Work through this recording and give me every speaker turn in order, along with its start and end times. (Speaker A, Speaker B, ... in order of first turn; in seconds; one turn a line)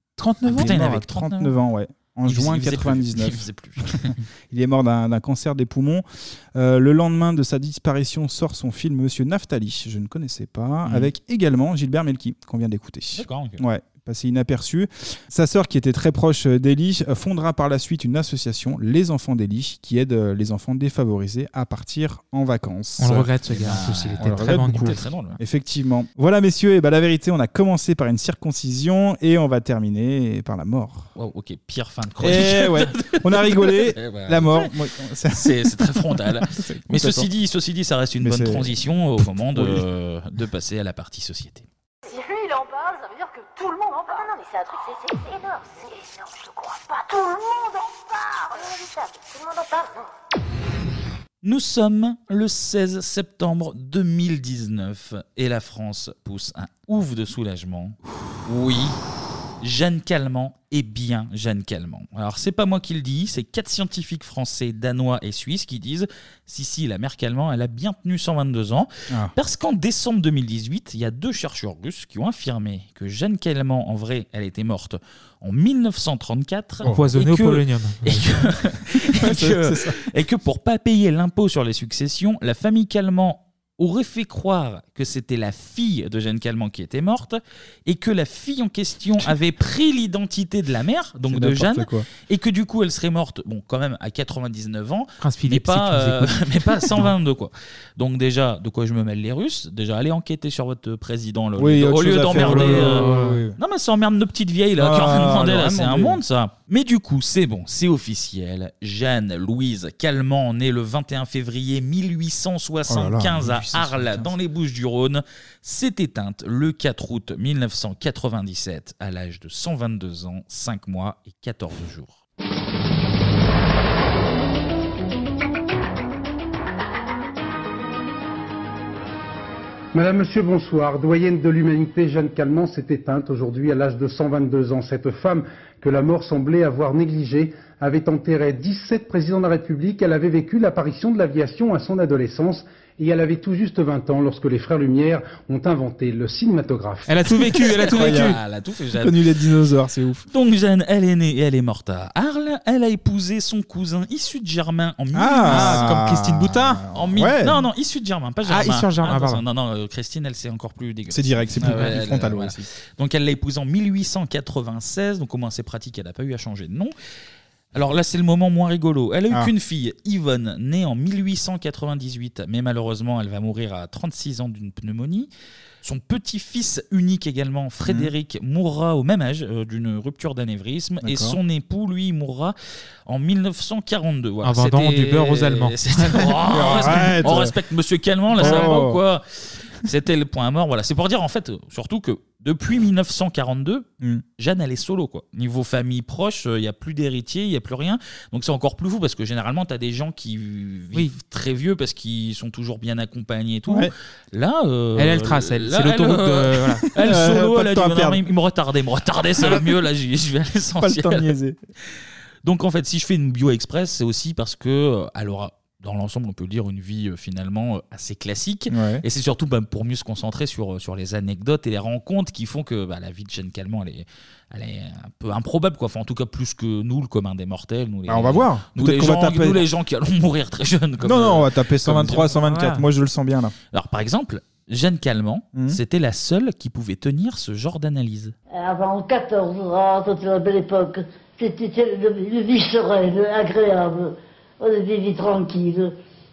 Speaker A: 0.2-0.7
Speaker B: 0.5-1.5
Speaker C: 0.5-23.3
Speaker B: 2.3-4.2
Speaker B: 10.8-11.1
Speaker B: 13.1-13.6
Speaker A: 23.0-25.0
Speaker B: 23.5-25.4
Speaker C: 24.2-31.1
Speaker B: 31.1-34.7
Speaker C: 32.2-37.3
Speaker B: 35.3-41.7
Speaker C: 38.2-38.8
Speaker C: 39.5-39.9
Speaker D: 42.1-50.0
Speaker B: 51.4-59.0
Speaker B: 59.6-122.2
Speaker A: 76.8-78.4
Speaker C: 79.1-80.0
Speaker C: 91.3-92.1
Speaker A: 95.2-97.1
Speaker C: 101.6-103.6
Speaker A: 102.3-103.4
Speaker C: 104.8-106.2
Speaker C: 112.9-114.3
Speaker E: 129.9-147.1
Speaker A: 147.0-148.4
Speaker B: 147.4-149.2
Speaker C: 147.7-148.4
Speaker C: 149.0-150.2
Speaker B: 150.3-156.0
Speaker C: 155.1-157.6
Speaker A: 155.4-156.8
Speaker B: 156.9-166.9
Speaker A: 158.4-159.4
Speaker C: 161.1-162.7
Speaker B: 167.7-175.3
Speaker B: 175.8-182.5
Speaker C: 177.8-178.1
Speaker C: 181.0-181.4
Speaker B: 183.1-189.2
Speaker A: 184.4-187.1
Speaker C: 186.5-187.5
Speaker C: 188.3-189.0
Speaker A: 188.4-188.8
Speaker B: 189.8-193.9
Speaker B: 194.4-211.3
Speaker A: 204.9-206.9
Speaker C: 207.0-208.2
Speaker C: 210.8-211.6
Speaker B: 212.4-232.3
Speaker C: 218.7-219.0
Speaker C: 228.1-229.7
Speaker C: 231.0-233.5
Speaker A: 232.4-232.8
Speaker B: 233.7-238.3
Speaker C: 235.5-235.8
Speaker F: 238.5-245.9